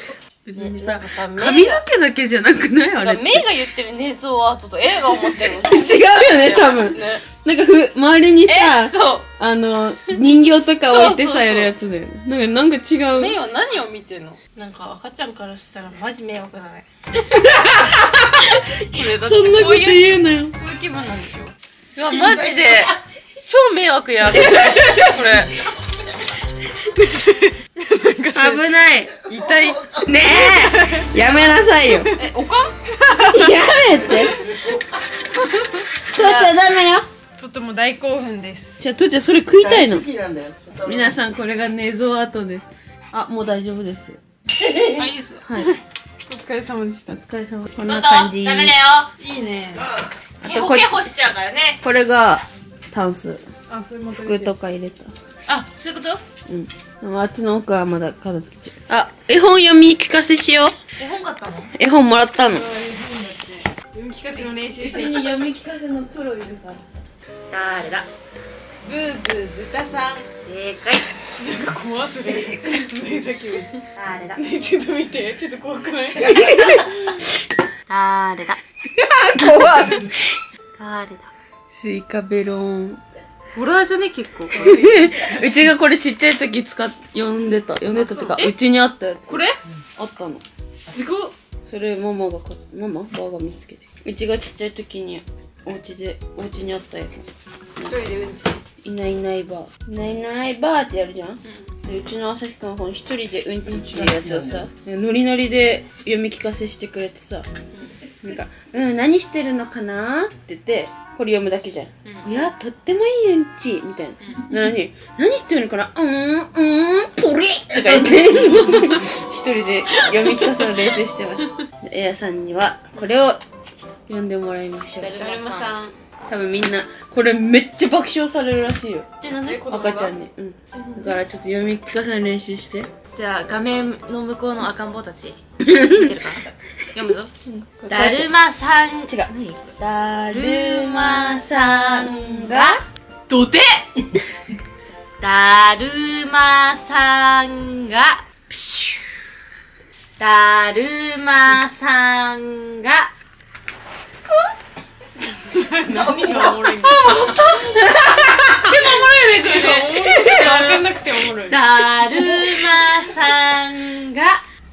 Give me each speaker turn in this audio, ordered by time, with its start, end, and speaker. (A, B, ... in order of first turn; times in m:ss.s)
0:00.4-0:03.4 A
0:00.5-0:01.8 B
0:03.0-0:07.2 B
0:05.6-0:13.4 A
0:08.4-0:09.3 B
0:10.9-0:11.7 B
0:13.1-0:16.8 B
0:17.3-0:20.6 A
0:17.5-0:25.6 B
0:22.2-0:22.9 C
0:24.4-0:25.1 A
0:26.9-0:28.7 D
0:28.3-0:29.1 A
0:29.2-0:30.5 C
0:29.2-0:32.2 D
0:30.0-0:32.1 A
0:32.1-0:32.7 B
0:32.9-0:33.5 D
0:33.2-0:34.4 A
0:34.0-0:34.8 C
0:35.5-0:36.5 D
0:36.1-0:37.1 A
0:37.4-0:38.8 D
0:38.8-0:40.1 A
0:39.6-0:41.2 C
0:40.8-0:45.7 A
0:44.9-0:45.4 B
0:45.5-0:47.2 D
0:47.1-0:48.8 A
0:47.8-0:49.1 B
0:49.2-0:49.9 D
0:49.8-0:50.1 C
0:50.4-0:51.8 B
0:50.4-0:51.0 A
0:51.8-0:53.4 A
0:53.7-0:54.5 D
0:54.1-0:55.1 A
0:55.5-0:56.2 B
0:56.5-1:00.8 A
1:01.0-1:01.7 B
1:01.7-1:02.7 A
1:02.5-1:05.3 D
1:04.8-1:07.0 A
1:07.5-1:08.1 B
1:08.8-1:10.2 D
1:10.4-1:11.1 B
1:11.4-1:13.8 D
1:13.9-1:14.4 B
1:14.4-1:16.9 D
1:16.2-1:16.8 A
1:17.9-1:18.6 B
1:19.0-1:20.3 A
1:20.8-1:21.3 B
1:21.7-1:23.0 A
1:23.5-1:24.8 B
1:24.5-1:29.4 A
1:28.0-1:28.5 B
1:29.3-1:29.6 B
1:30.0-1:30.4 A
1:30.7-1:31.3 B
1:31.7-1:38.1 A
1:37.8-1:38.6 D
1:38.8-1:47.5 A
1:41.4-1:41.7 B
1:43.6-1:44.6 C
1:47.7-1:48.4 B
1:48.2-2:03.4 A
1:52.0-1:52.5 B
2:04.1-2:05.2 A
2:05.0-2:05.8 B
2:05.2-2:06.0 D
2:06.3-2:09.1 A
2:09.2-2:09.6 B
2:09.4-2:10.1 D
2:09.7-2:12.9 A
2:10.7-2:11.2 B
2:13.1-2:17.3 B
2:15.6-2:16.1 A
2:17.5-2:18.3 A
2:17.9-2:19.7 B
2:19.1-2:22.8 A
2:20.3-2:23.9 B
2:25.2-2:29.1 B
2:30.2-2:33.1 B
2:35.4-2:37.5 D
2:35.9-2:37.2 C
2:36.8-2:37.9 B
2:37.8-2:38.6 A
2:38.6-2:40.9 B
2:39.4-2:41.6 D
2:41.5-2:44.4 B